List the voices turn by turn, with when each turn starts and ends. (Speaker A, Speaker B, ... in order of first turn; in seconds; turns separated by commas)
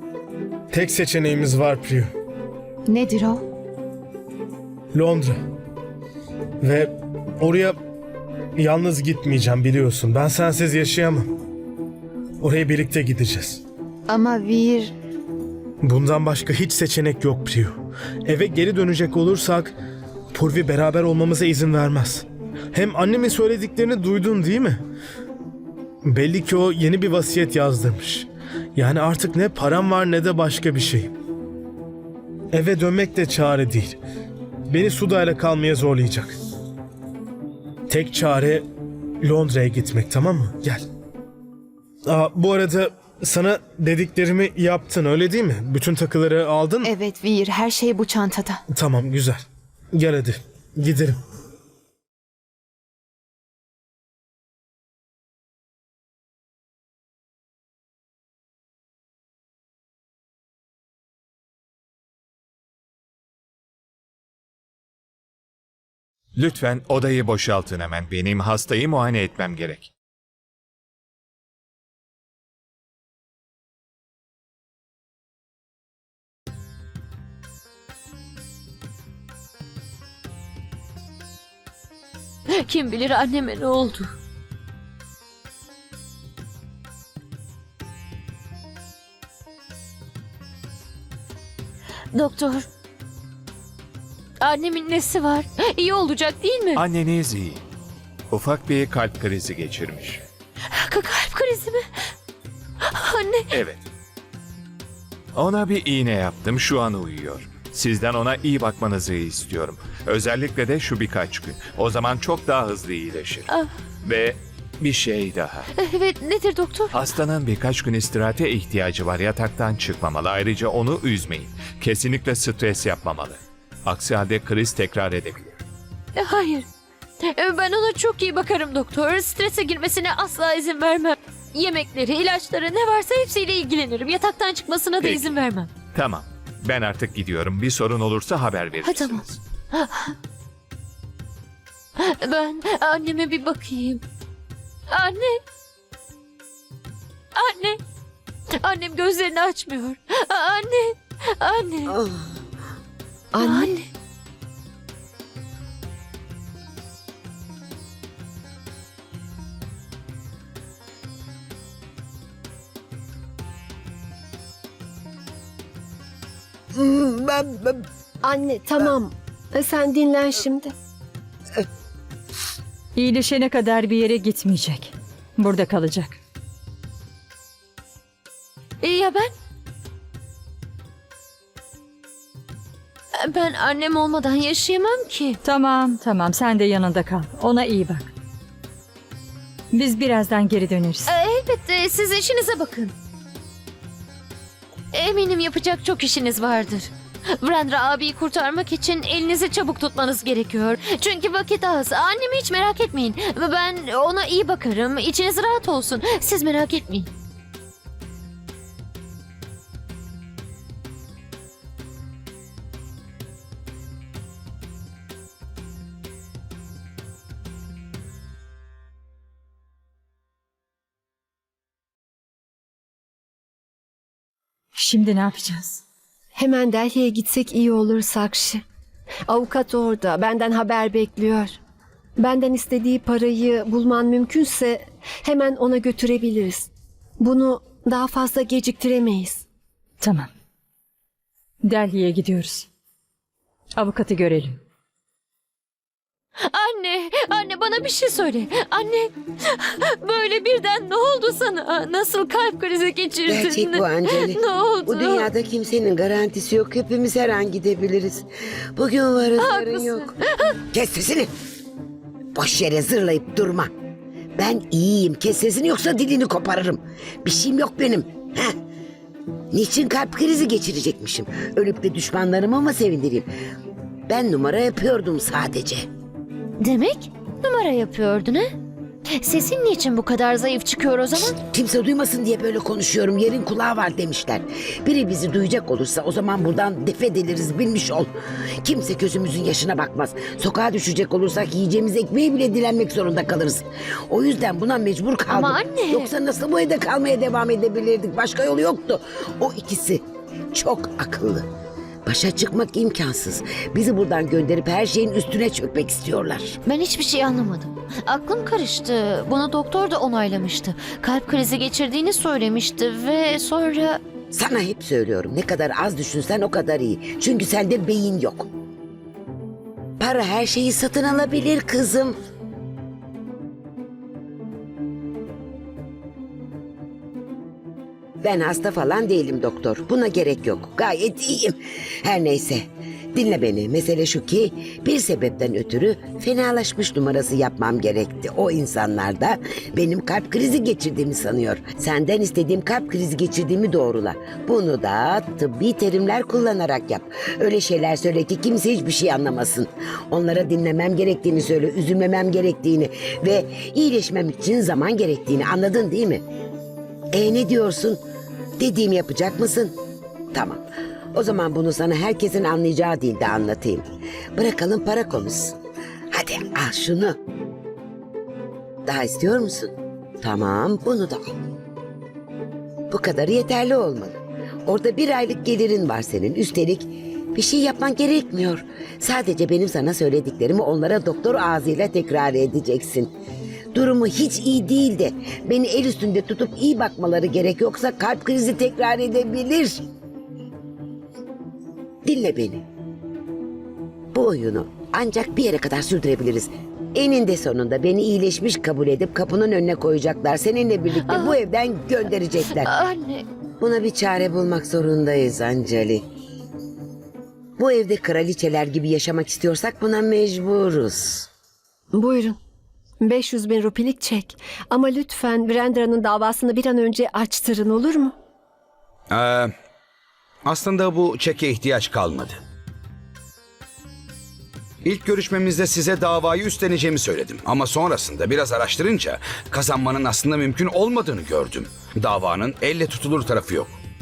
Speaker A: 0.7-2.1, Speaker B: 2.9-3.4, Speaker A: 4.9-5.4, Speaker A: 6.6-7.8, Speaker A: 8.6-11.2, Speaker A: 12.4-13.6, Speaker B: 14.1-14.9, Speaker A: 15.8-19.7, Speaker A: 20.3-24.8, Speaker A: 26.0-31.1, Speaker A: 32.5-34.0, Speaker A: 34.7-36.3, Speaker A: 37.9-38.6, Speaker A: 39.2-40.8, Speaker A: 42.1-46.9, Speaker B: 46.8-48.6, Speaker A: 48.7-49.4, Speaker A: 49.9-51.2, Speaker C: 66.4-69.9, Speaker D: 82.6-84.1, Speaker D: 92.1-92.7, Speaker D: 94.4-96.8, Speaker C: 96.7-97.6, Speaker C: 98.3-100.2, Speaker D: 100.8-101.8, Speaker D: 102.9-103.5, Speaker C: 103.5-103.8, Speaker C: 105.3-113.5, Speaker C: 114.0-115.7, Speaker D: 115.8-116.9, Speaker C: 116.9-125.6, Speaker D: 126.1-126.7, Speaker D: 127.3-135.7, Speaker C: 135.0-135.4, Speaker C: 135.9-139.4, Speaker D: 138.8-140.1, Speaker D: 142.0-144.0, Speaker D: 144.9-145.4, Speaker D: 147.3-147.8, Speaker D: 148.6-151.8, Speaker E: 151.9-152.4, Speaker F: 153.3-153.7, Speaker D: 153.4-153.9, Speaker E: 166.7-167.8, Speaker F: 168.3-170.7, Speaker G: 172.9-176.2, Speaker D: 178.8-179.3, Speaker D: 183.2-185.4, Speaker G: 185.4-188.1, Speaker G: 189.7-191.1, Speaker D: 191.1-192.9, Speaker D: 194.9-207.1, Speaker G: 224.8-225.8, Speaker F: 226.4-228.6, Speaker F: 229.3-231.6, Speaker F: 232.2-236.7, Speaker F: 237.2-239.4, Speaker G: 240.0-240.3, Speaker G: 241.6-242.7, Speaker G: 243.8-244.6, Speaker D: 246.4-255.3, Speaker E: 253.2-260.1, Speaker D: 259.4-260.5, Speaker E: 260.7-261.3, Speaker E: 262.3-263.7, Speaker E: 264.4-268.5, Speaker E: 269.5-273.3, Speaker E: 274.1-275.9, Speaker D: 276.6-278.4, Speaker D: 279.2-281.2, Speaker E: 281.2-288.1, Speaker E: 288.6-300.0, Speaker D: 295.3-296.1, Speaker E: 300.5-301.4, Speaker E: 302.1-306.6, Speaker D: 306.7-314.0, Speaker E: 314.3-318.5, Speaker E: 320.0-322.2, Speaker E: 328.2-356.2, Speaker E: 357.1-358.0, Speaker E: 358.6-359.7, Speaker E: 360.3-360.6, Speaker E: 361.1-363.8, Speaker E: 364.4-365.6, Speaker E: 366.1-367.1, Speaker E: 368.9-371.3, Speaker E: 372.9-383.1, Speaker E: 383.7-389.8, Speaker E: 392.0-392.6, Speaker E: 394.1-402.7, Speaker D: 402.5-403.2, Speaker E: 403.6-406.0, Speaker E: 407.6-411.3, Speaker F: 412.0-412.4, Speaker F: 413.0-418.1, Speaker H: 419.1-419.5, Speaker H: 420.4-422.4, Speaker H: 424.8-433.8